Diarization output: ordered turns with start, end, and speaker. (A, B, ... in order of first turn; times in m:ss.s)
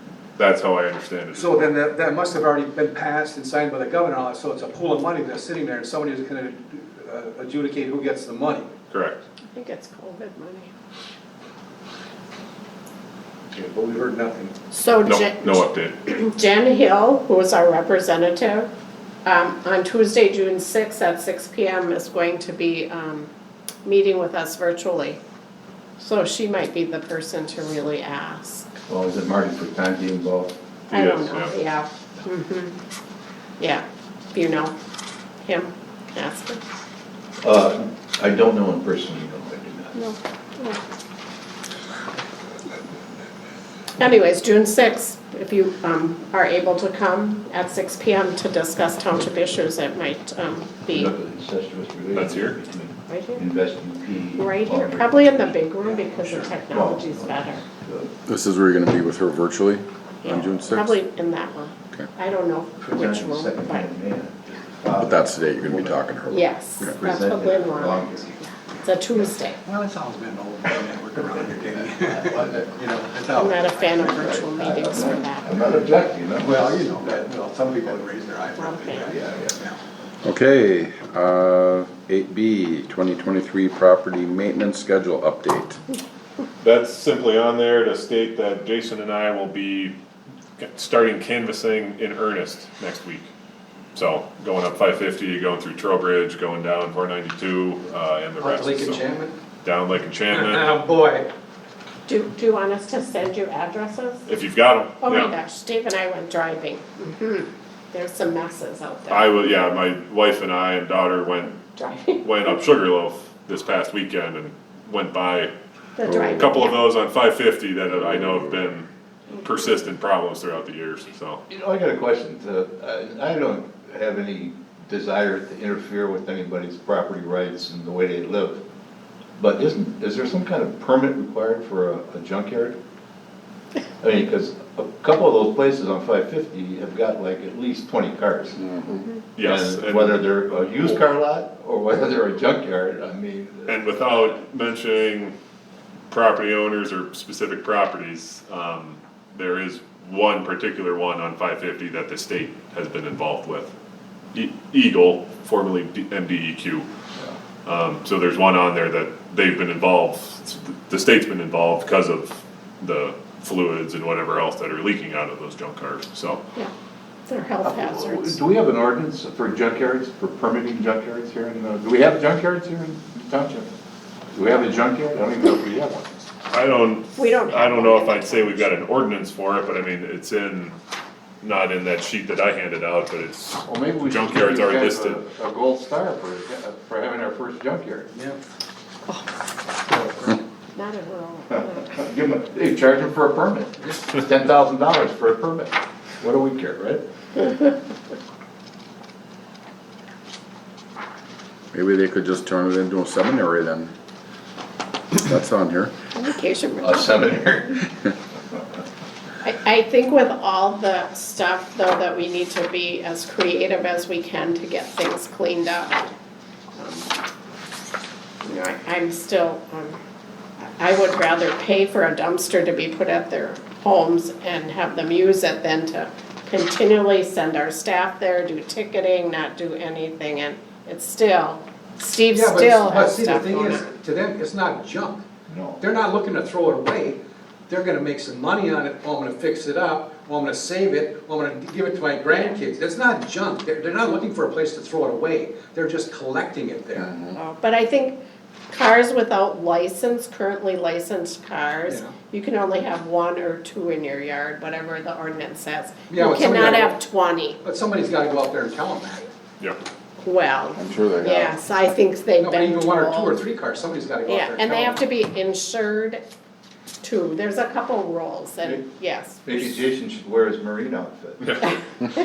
0:00.4-0:01.7 A
0:01.3-0:08.7 B
0:08.9-0:09.2 A
0:09.5-0:10.7 C
0:13.5-0:14.5 B
0:14.7-0:18.7 C
0:15.0-0:15.9 A
0:19.2-0:23.3 C
0:23.8-0:25.2 C
0:26.0-0:28.7 C
0:28.9-0:30.5 D
0:30.9-0:31.5 A
0:30.9-0:32.7 C
0:33.6-0:34.7 C
0:35.4-0:36.6 C
0:37.4-0:40.0 D
0:39.9-0:40.8 C
0:44.0-0:51.1 C
0:50.9-0:55.3 D
0:52.1-0:52.6 A
0:53.1-0:53.4 C
0:54.4-0:57.6 C
0:55.8-0:56.6 B
0:56.7-0:58.1 D
0:58.2-1:01.0 E
1:00.2-1:03.9 C
1:02.8-1:08.2 D
1:05.0-1:06.3 E
1:06.3-1:09.6 C
1:09.6-1:14.5 B
1:13.3-1:15.5 C
1:14.2-1:16.6 D
1:16.4-1:19.8 B
1:18.6-1:19.1 C
1:19.1-1:19.6 D
1:20.2-1:25.8 E
1:26.6-1:29.9 A
1:30.6-1:33.3 A
1:33.9-1:39.0 A
1:38.4-1:39.3 B
1:39.6-1:40.8 A
1:40.3-1:41.3 B
1:42.0-1:44.3 C
1:44.2-1:45.3 A
1:45.0-1:49.3 C
1:49.1-1:51.6 A
1:51.6-1:52.6 C
1:52.2-1:55.5 A
1:56.0-1:56.8 C
1:56.1-1:56.3 D
1:56.1-1:58.9 A
1:59.4-2:01.4 A
2:01.5-2:08.6 D
2:09.4-2:12.8 D
2:14.0-2:18.6 D
2:18.6-2:18.9 E
2:18.9-2:19.2 C
2:19.4-2:21.0 A
2:19.4-2:23.7 D
2:23.6-2:25.3 A
2:26.1-2:33.7 A
2:34.3-2:36.9 A
2:37.6-2:46.4 A
2:47.3-2:48.4 C
2:47.6-2:53.7 D
2:54.3-2:56.2 D
2:56.5-3:00.7 A
2:57.2-2:58.8 C
3:01.4-3:05.2 A
3:03.7-3:08.1 D
3:08.1-3:08.4 B
3:10.0-3:10.4 B
3:10.7-3:12.0 C
3:11.5-3:17.0 D
3:21.7-3:23.9 E
3:25.1-3:25.9 E
3:26.1-3:27.2 C
3:26.8-3:27.8 D
3:29.4-3:36.1 C
3:36.7-3:37.2 C
3:38.4-3:40.0 C
3:40.6-3:53.9 C
3:52.3-3:55.2 B
3:55.5-3:55.8 D
3:55.8-4:07.1 B
4:07.3-4:08.2 C
4:08.7-4:17.6 C
4:11.9-4:12.1 B
4:16.1-4:17.0 B
4:17.6-4:19.3 B
4:20.2-4:23.4 C
4:20.8-4:21.5 E
4:22.4-4:25.0 B
4:24.3-4:26.2 C
4:27.0-4:29.8 C
4:29.4-4:31.4 D
4:31.4-4:31.8 A